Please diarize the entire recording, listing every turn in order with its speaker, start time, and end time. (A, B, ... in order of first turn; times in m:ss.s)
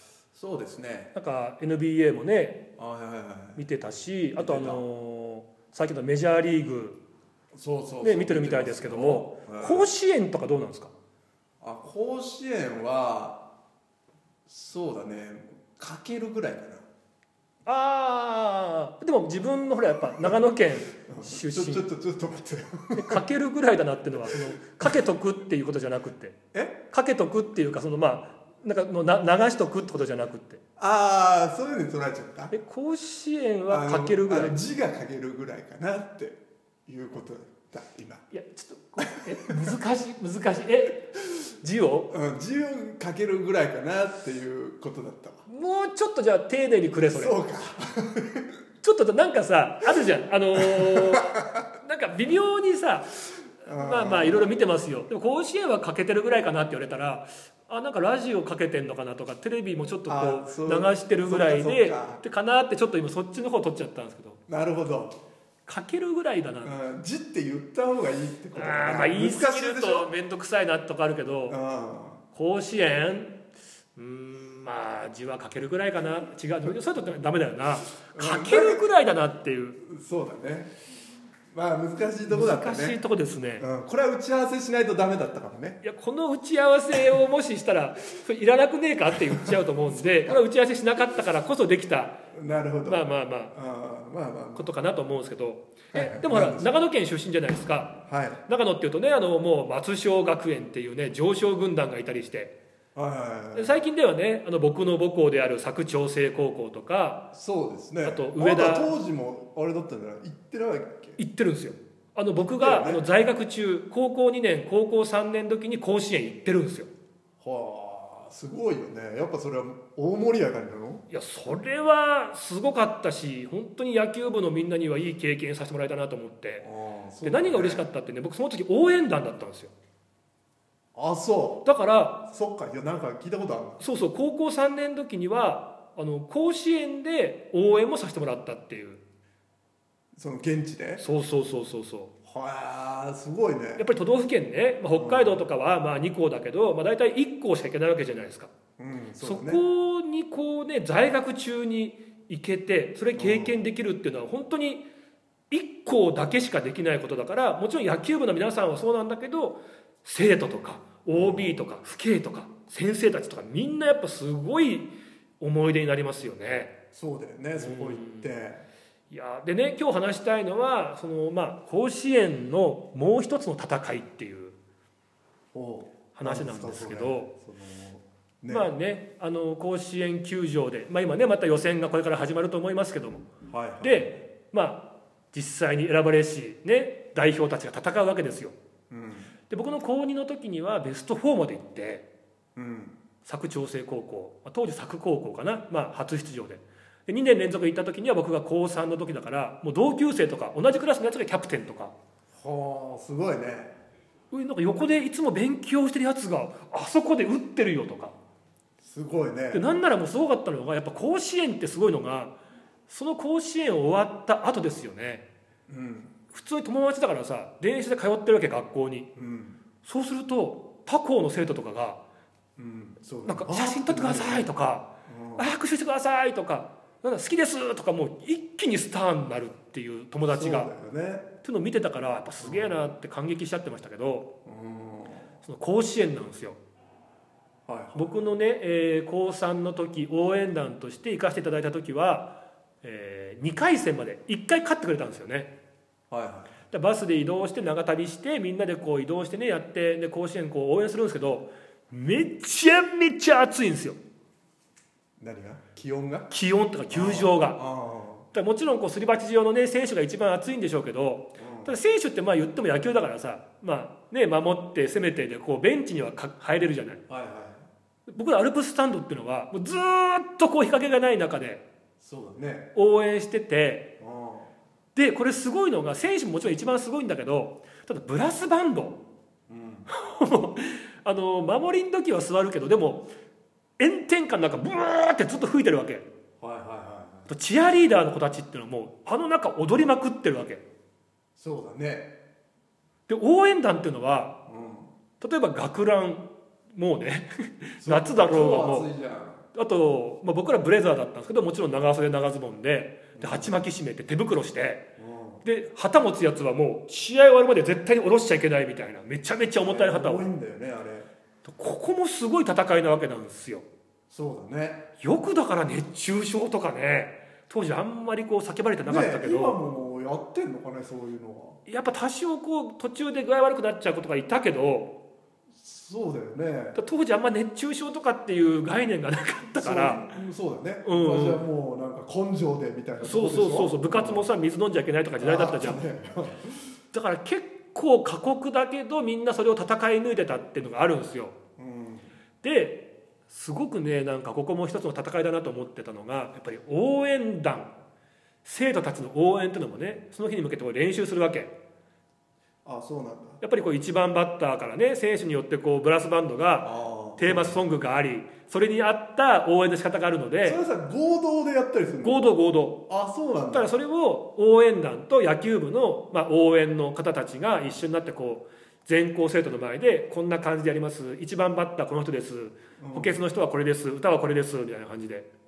0:00.3-0:01.1 A
0:01.1-0:02.6 B
0:02.8-0:03.6 A
0:03.6-0:07.0 B
0:04.4-0:04.8 A
0:07.5-0:09.9 A
0:08.0-0:10.9 B
0:11.6-0:13.4 A
0:14.5-0:16.8 A
0:17.7-0:21.9 B
0:21.1-0:23.2 A
0:23.0-0:26.4 B
0:24.2-0:25.0 A
0:26.5-0:26.8 A
0:26.9-0:30.6 B
0:30.8-0:32.5 A
0:32.5-0:34.6 B
0:33.7-0:38.2 A
0:38.3-0:42.1 B
0:39.0-0:39.8 A
0:42.1-0:45.4 A
0:45.5-0:47.4 B
0:47.1-0:48.5 A
0:48.8-0:53.2 B
0:50.5-0:51.6 A
0:53.6-0:54.5 A
0:53.8-1:04.4 B
1:00.1-1:02.2 A
1:04.5-1:05.2 A
1:05.7-1:06.8 B
1:06.6-1:10.1 A
1:08.6-1:11.6 B
1:11.5-1:12.2 A
1:12.3-1:13.4 B
1:14.0-1:19.8 B
1:18.0-1:18.9 A
1:19.8-1:20.7 A
1:21.5-1:23.0 A
1:22.3-1:23.7 B
1:23.6-1:25.8 A
1:25.8-1:32.2 B
1:29.3-1:30.4 A
1:32.3-1:34.7 A
1:32.8-1:33.5 B
1:34.6-1:42.6 B
1:35.9-1:36.7 A
1:38.1-1:38.4 A
1:43.0-1:43.8 A
1:43.5-1:47.3 B
1:47.3-1:51.2 A
1:48.0-1:48.9 B
1:51.2-1:56.9 B
1:52.5-1:53.0 A
1:57.4-2:01.0 A
2:01.1-2:06.7 B
2:06.6-2:07.9 A
2:07.2-2:09.7 B
2:11.0-2:11.6 A
2:11.6-2:12.2 B
2:12.3-2:13.8 A
2:13.8-2:19.0 B
2:20.2-2:21.0 A
2:21.0-2:22.1 B
2:22.3-2:23.9 A
2:23.8-2:28.5 B
2:24.9-2:25.5 A
2:28.8-2:29.6 A
2:29.2-2:34.8 B
2:33.2-2:33.6 A
2:35.5-2:46.7 B
2:41.1-2:41.6 A
2:46.9-2:48.6 A
2:47.6-2:48.3 B
2:49.1-2:54.6 B
2:55.5-2:58.7 A
2:56.1-2:57.3 B
2:58.5-3:03.3 B
3:03.5-3:04.2 A
3:03.8-3:08.6 B
3:08.9-3:09.3 A
3:09.5-3:12.1 B
3:12.6-3:13.0 A
3:13.2-3:21.9 B
3:22.4-3:23.7 A
3:24.3-3:28.2 B
3:28.8-3:29.6 A
3:29.5-3:32.4 B
3:32.9-3:35.2 B
3:35.7-3:36.1 A
3:36.3-3:39.1 B
3:39.2-3:39.6 A
3:39.8-3:42.0 B
3:42.6-3:44.5 A
3:43.3-3:50.7 B
3:45.1-3:45.5 A
3:50.3-3:51.3 A
3:51.4-3:54.3 B
3:52.4-3:52.9 A
3:54.5-3:55.3 A
3:55.4-3:56.6 B
3:57.7-3:58.2 A
3:58.0-4:05.5 B
4:06.1-4:06.6 A
4:06.7-4:14.0 B
4:15.2-4:16.3 A
4:16.3-4:17.6 B
4:16.9-4:18.3 A
4:18.3-4:27.0 B
4:21.4-4:21.8 A
4:27.1-4:27.7 A
4:28.1-4:31.6 B
4:32.0-4:32.7 A
4:32.8-4:33.9 B
4:34.0-4:34.5 A
4:35.0-4:39.0 B
4:39.5-4:39.9 A
4:39.9-4:43.1 B
4:43.8-4:46.1 B
4:46.4-4:47.3 A
4:47.3-4:50.6 B
4:51.4-4:52.1 A
4:53.1-4:54.4 B
4:54.5-4:54.9 A
4:55.2-4:58.9 B
4:57.8-4:59.4 A
4:59.5-5:04.8 B
5:03.2-5:03.6 A
5:05.0-5:05.4 A
5:05.4-5:10.3 B
5:09.6-5:11.1 A
5:11.4-5:13.6 B
5:14.1-5:14.9 A
5:15.0-5:19.6 B
5:18.9-5:21.6 A
5:21.7-5:24.9 B
5:25.5-5:26.8 A
5:26.8-5:30.1 B
5:29.5-5:34.3 A
5:30.8-5:31.4 B
5:33.0-5:35.8 B
5:35.2-5:36.7 A
5:36.9-5:41.4 B
5:41.6-5:42.1 A
5:42.4-5:47.7 B
5:48.4-5:51.5 B
5:52.6-5:53.4 A
5:53.4-6:00.6 B
5:56.6-5:57.6 A
6:00.4-6:02.2 A
6:02.0-6:02.8 B
6:02.9-6:03.7 A
6:03.5-6:15.3 B
6:12.8-6:13.2 A